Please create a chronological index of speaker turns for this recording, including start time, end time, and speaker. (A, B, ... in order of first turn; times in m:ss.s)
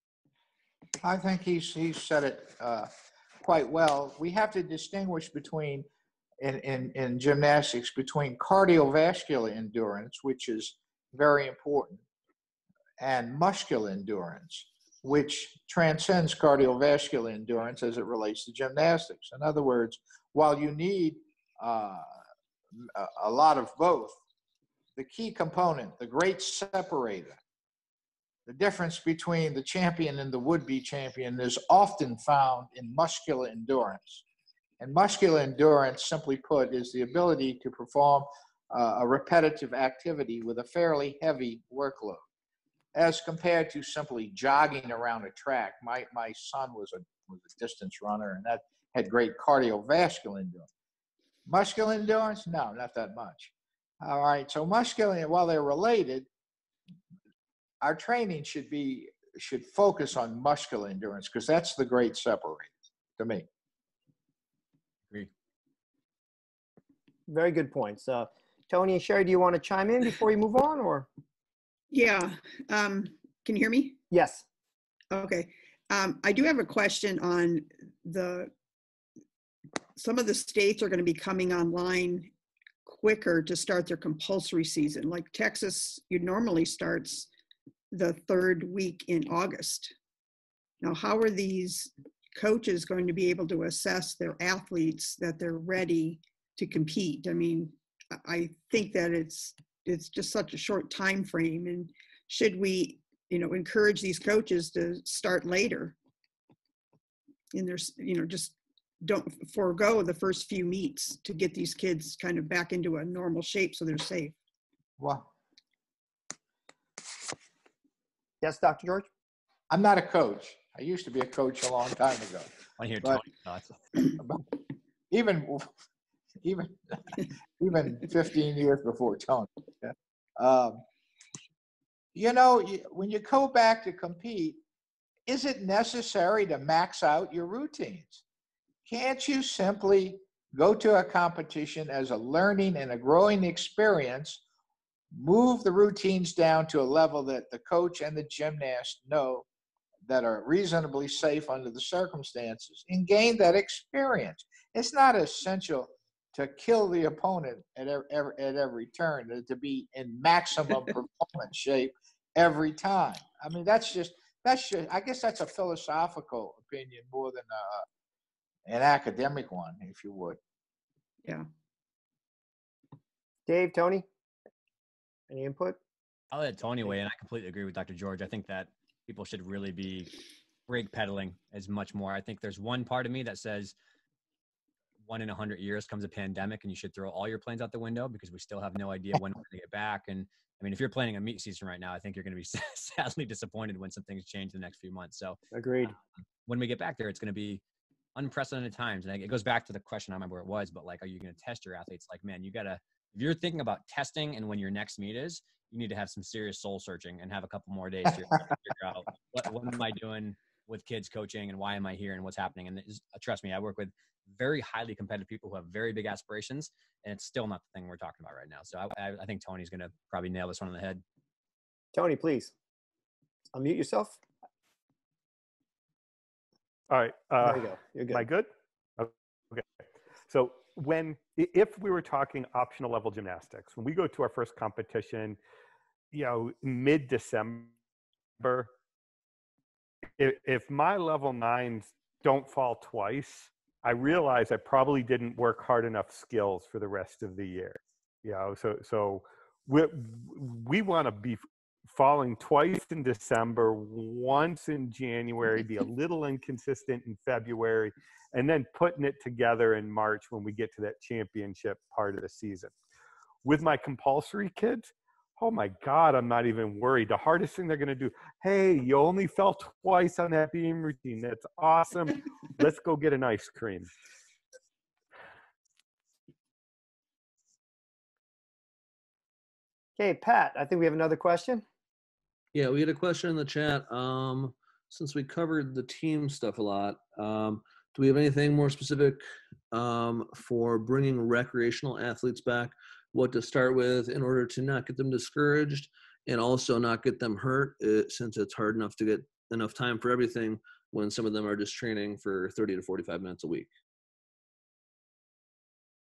0:01.0-0:02.9 A
0:03.4-0:05.9 A
0:06.4-0:12.0 A
0:13.0-0:22.1 A
0:22.8-0:24.2 A
0:25.0-0:27.4 A
0:28.5-0:34.2 A
0:34.8-0:42.2 A
0:43.0-0:50.7 A
0:51.5-0:56.3 A
0:57.8-1:03.5 A
1:07.3-1:11.1 B
1:11.9-1:14.0 C
1:14.1-1:14.4 B
1:15.1-1:18.5 C
1:20.0-1:22.3 C
1:22.8-1:27.3 C
1:27.9-1:29.9 C
1:30.8-1:46.0 C
1:47.5-1:54.4 C
1:55.0-1:55.3 A
1:58.4-1:59.1 B
1:59.7-2:02.5 A
2:02.8-2:03.8 D
2:04.2-2:04.6 A
2:05.1-2:05.7 A
2:06.4-2:10.8 A
2:12.2-2:14.6 A
2:15.3-2:18.2 A
2:18.9-2:24.4 A
2:25.1-2:29.5 A
2:30.1-2:47.8 A
2:48.7-2:50.4 A
2:53.5-2:54.1 B
2:55.3-2:55.8 B
2:56.3-3:00.1 D
3:00.7-3:03.8 D
3:05.0-3:15.4 D
3:15.5-3:16.0 B
3:16.5-3:17.6 D
3:18.2-3:41.0 D
3:41.9-3:42.5 B
3:43.5-3:44.2 B
3:46.9-3:49.7 E
3:47.4-3:48.2 B
3:50.3-3:55.4 E
3:56.1-3:57.7 E
3:58.4-3:58.7 E
4:00.2-4:22.7 E
4:23.4-4:33.9 E
4:40.0-4:41.6 B
4:42.5-5:03.7 F